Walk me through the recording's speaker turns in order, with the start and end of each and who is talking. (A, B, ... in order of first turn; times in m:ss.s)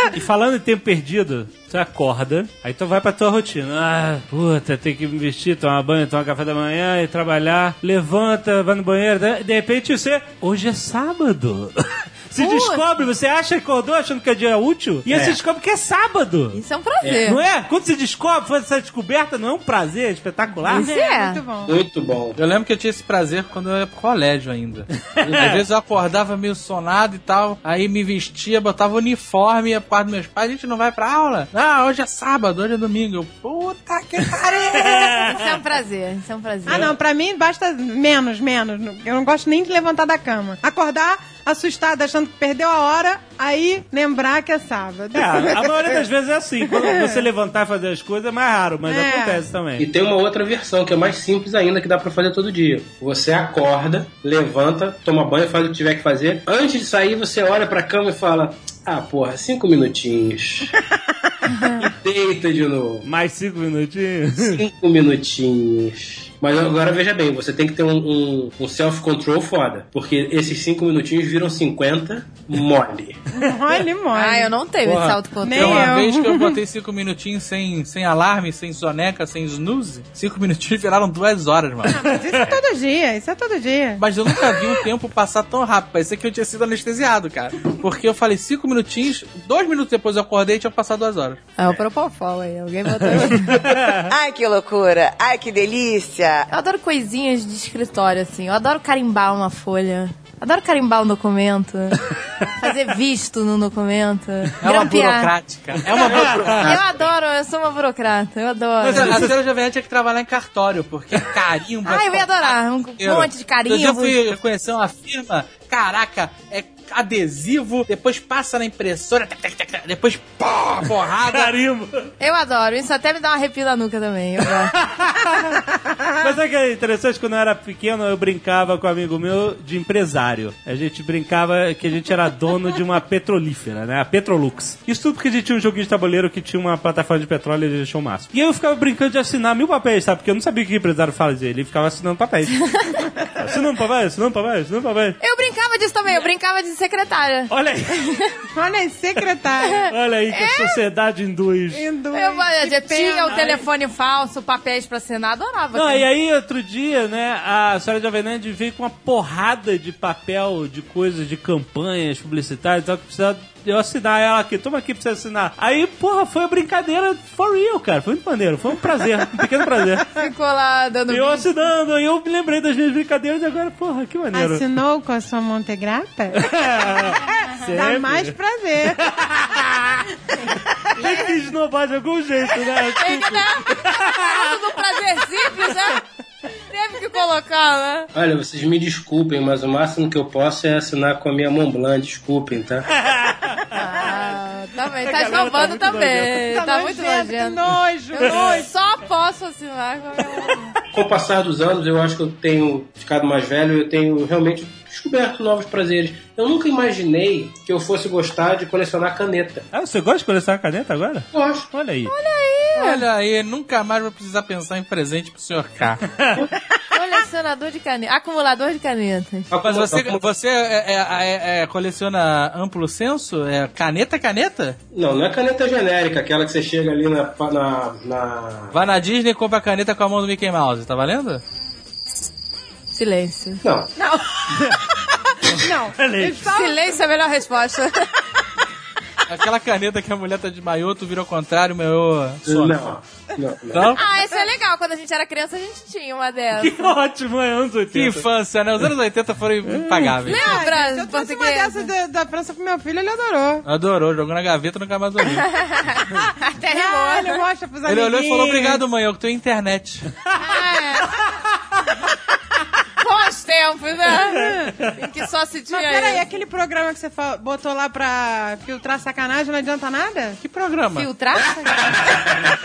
0:00.1-0:16.6 A
0:12.4-0:12.8 B
0:15.1-0:15.4 C
0:16.5-0:17.4 B
0:17.0-0:17.3 C
0:17.2-0:20.9 A
0:20.7-0:21.4 B
0:20.7-0:21.7 D
0:21.6-0:22.4 C
0:22.4-0:35.2 E
0:34.8-0:36.9 B
0:34.9-0:35.4 A
0:36.6-0:45.7 D
0:45.1-0:49.9 A
0:46.7-0:47.2 D
0:48.9-0:49.4 D
0:49.8-1:00.7 C
1:01.8-1:03.1 C
1:03.0-1:04.6 A
1:04.4-1:13.2 C
1:13.3-1:14.5 D
1:14.1-1:16.0 B
1:14.8-1:22.0 E
1:15.4-1:16.6 D
1:21.9-1:24.0 D
1:22.0-1:22.5 A
1:24.0-1:31.4 E
1:31.6-1:33.8 B
1:33.1-1:34.1 A
1:34.1-1:36.5 F
1:36.5-1:45.3 B
1:44.6-1:46.7 E
1:46.0-1:46.8 C
1:46.2-1:46.5 A
1:46.6-1:49.3 B
1:48.8-1:49.4 A
1:48.9-2:01.5 E
1:51.8-1:54.3 B
2:01.3-2:02.1 A
2:02.2-2:04.7 B
2:04.8-2:05.5 A
2:06.2-2:22.7 A
2:22.5-2:23.1 B
2:23.4-2:25.2 A
2:25.2-2:28.4 B
2:27.5-2:28.3 A
2:28.6-2:29.8 D
2:29.7-2:30.8 B
2:29.9-2:31.9 A
2:31.7-2:33.5 D
2:32.1-2:36.1 B
2:33.3-2:33.6 A
2:35.7-2:50.1 A
2:50.2-2:51.5 B
2:51.1-2:54.6 A
2:54.3-2:59.0 D
2:56.4-3:00.1 A
3:00.9-3:04.6 A
3:02.8-3:06.0 B
3:06.7-3:08.1 B
3:08.1-3:12.9 C
3:13.0-3:14.2 A
3:13.7-3:17.6 B
3:14.9-3:16.4 A
3:16.4-3:18.7 D
3:18.1-3:20.7 B
3:20.9-3:29.7 C
3:29.7-3:32.1 A
3:31.3-3:31.7 C
3:32.1-3:33.0 B
3:32.7-3:36.0 E
3:36.1-3:36.4 A
3:36.9-3:39.5 B
3:39.5-3:40.3 C
3:39.6-3:44.8 E
3:44.9-3:48.7 C
3:48.7-3:51.4 E
3:52.9-3:54.2 B
3:53.6-3:53.9 C
3:55.5-3:57.0 D
3:56.0-3:56.4 A
3:56.4-3:58.1 B
3:59.3-4:02.8 E
4:02.4-4:04.0 C
4:03.7-4:04.0 E
4:04.0-4:06.9 B
4:06.6-4:08.3 A
4:07.9-4:10.4 E
4:09.8-4:10.1 A
4:10.2-4:11.9 B
4:10.3-4:13.6 D
4:13.6-4:15.5 E
4:15.4-4:17.4 B
4:16.7-4:18.8 D
4:17.8-4:20.1 E
4:20.4-4:21.2 B
4:23.0-4:26.2 B
4:24.2-4:24.9 D
4:25.7-4:30.4 D
4:30.4-4:31.1 E
4:30.9-4:32.0 B
4:31.7-4:32.4 C